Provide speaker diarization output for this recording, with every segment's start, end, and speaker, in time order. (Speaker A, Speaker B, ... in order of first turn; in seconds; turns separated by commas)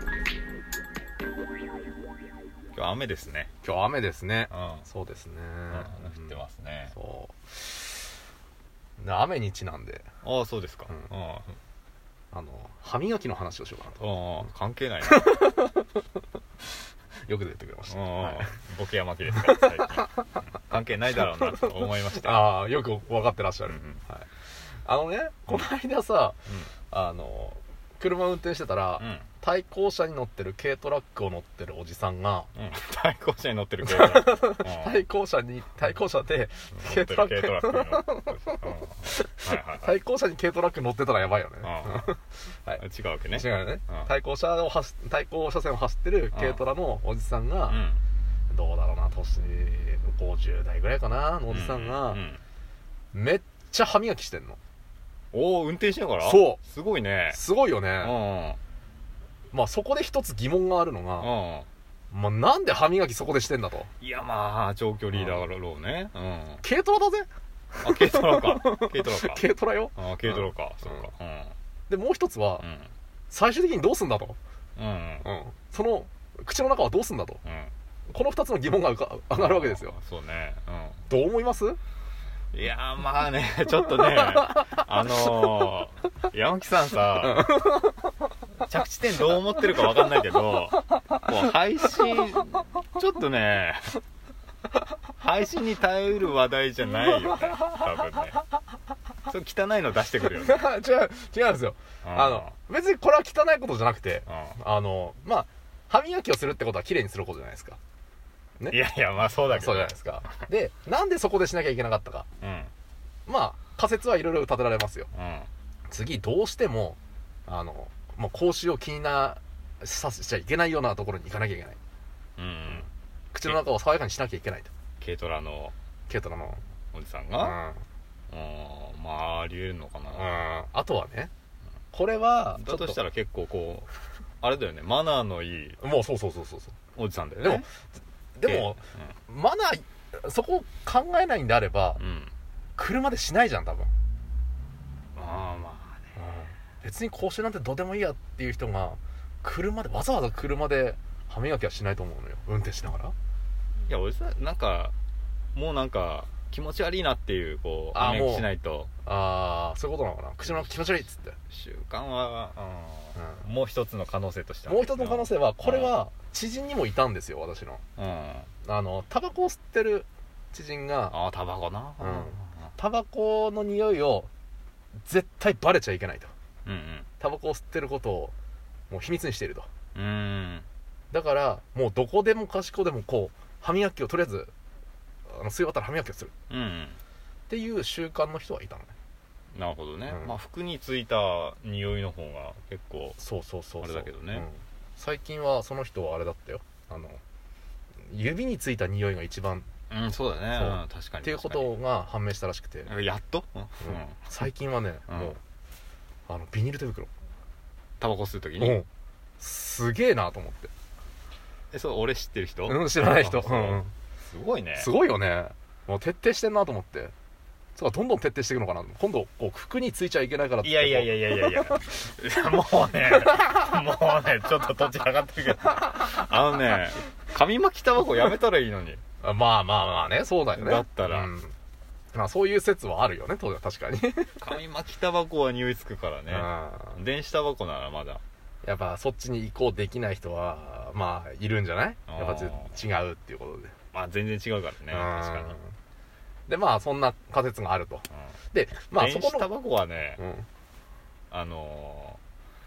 Speaker A: 2.7-3.5, Speaker B: 3.6-6.4, Speaker A: 4.5-4.8, Speaker A: 5.7-6.9, Speaker B: 6.9-8.0, Speaker B: 9.0-10.0, Speaker A: 10.2-11.5, Speaker B: 12.3-14.0, Speaker A: 14.0-15.3, Speaker B: 15.0-16.0, Speaker B: 17.3-18.5, Speaker A: 17.9-22.5, Speaker B: 19.4-20.1, Speaker B: 21.4-24.3, Speaker A: 23.7-24.0, Speaker B: 24.8-26.4, Speaker B: 26.9-32.5, Speaker A: 29.0-29.2, Speaker A: 32.5-35.0, Speaker B: 33.8-42.8, Speaker A: 36.7-39.9, Speaker A: 41.6-42.1, Speaker A: 42.8-44.1, Speaker B: 43.3-47.9, Speaker A: 46.3-46.6, Speaker A: 47.7-48.0, Speaker B: 48.5-52.2, Speaker A: 51.5-52.4, Speaker B: 53.1-54.6, Speaker A: 55.3-57.4, Speaker B: 56.2-56.6, Speaker B: 57.3-58.1, Speaker A: 58.0-58.6, Speaker B: 59.5-61.3, Speaker A: 61.2-61.7, Speaker B: 62.1-63.9, Speaker A: 64.0-66.6, Speaker B: 65.1-65.4, Speaker B: 66.6-67.3, Speaker B: 67.8-71.0, Speaker A: 67.8-69.4, Speaker A: 70.0-71.5, Speaker B: 71.9-72.6, Speaker A: 72.6-72.9, Speaker B: 73.3-74.4, Speaker A: 74.8-75.2, Speaker B: 75.2-77.4, Speaker A: 77.4-77.7, Speaker B: 78.1-80.0, Speaker A: 79.3-81.0, Speaker B: 81.1-81.8, Speaker A: 82.5-87.7, Speaker B: 84.1-84.4, Speaker B: 87.2-88.0, Speaker A: 88.6-94.0, Speaker B: 89.1-90.0, Speaker A: 95.2-98.4, Speaker B: 97.0-97.9, Speaker A: 99.3-100.6, Speaker B: 100.3-107.8, Speaker A: 102.0-102.5, Speaker A: 104.3-104.6, Speaker A: 108.7-110.3, Speaker B: 109.5-112.3, Speaker A: 112.4-112.7, Speaker B: 113.2-115.1, Speaker A: 115.1-115.5, Speaker B: 115.9-121.8, Speaker A: 122.4-122.9, Speaker B: 122.7-124.7, Speaker A: 125.0-125.7, Speaker B: 126.1-126.6, Speaker A: 126.9-127.6, Speaker B: 127.4-127.8, Speaker A: 128.3-130.3, Speaker B: 130.1-131.3, Speaker B: 131.9-133.0, Speaker A: 132.6-135.8, Speaker B: 135.8-136.7, Speaker A: 136.9-137.7, Speaker B: 137.4-137.6, Speaker B: 138.3-142.0, Speaker A: 138.5-139.1, Speaker A: 142.0-142.3, Speaker B: 142.8-143.9, Speaker A: 145.2-146.1, Speaker B: 146.2-153.1, Speaker A: 153.9-154.9, Speaker A: 155.5-158.9, Speaker B: 157.9-158.5, Speaker B: 159.0-161.3, Speaker A: 161.5-165.9, Speaker B: 163.2-163.4, Speaker B: 164.7-167.8, Speaker A: 168.0-168.5, Speaker B: 168.6-171.1, Speaker A: 171.1-172.7, Speaker B: 172.0-174.3, Speaker B: 175.0-176.3, Speaker A: 176.7-177.1, Speaker B: 177.2-178.3, Speaker B: 178.9-179.7, Speaker A: 179.9-180.7, Speaker B: 181.1-184.5, Speaker B: 185.3-186.3, Speaker A: 186.5-187.0, Speaker B: 187.5-188.9, Speaker A: 189.5-193.2, Speaker B: 190.1-190.3, Speaker B: 193.2-197.2, Speaker A: 193.8-194.5, Speaker B: 198.1-199.7, Speaker A: 199.9-201.7, Speaker B: 200.5-202.9, Speaker A: 202.8-204.2, Speaker B: 203.8-205.4, Speaker A: 205.1-205.3, Speaker B: 206.3-207.1, Speaker A: 208.0-208.8, Speaker B: 208.6-208.9, Speaker B: 209.4-210.7, Speaker A: 211.7-214.9, Speaker B: 212.7-213.9, Speaker B: 214.7-217.1, Speaker B: 217.8-221.8, Speaker A: 220.6-229.0, Speaker B: 223.3-223.5, Speaker B: 229.2-231.5, Speaker A: 230.6-231.3, Speaker B: 232.1-234.4, Speaker A: 234.4-238.2, Speaker B: 236.3-236.9, Speaker B: 238.6-243.7, Speaker A: 242.1-242.7, Speaker A: 243.9-245.6, Speaker B: 244.9-245.6, Speaker B: 246.5-249.5, Speaker A: 248.9-250.2, Speaker B: 250.2-250.5, Speaker A: 251.3-252.2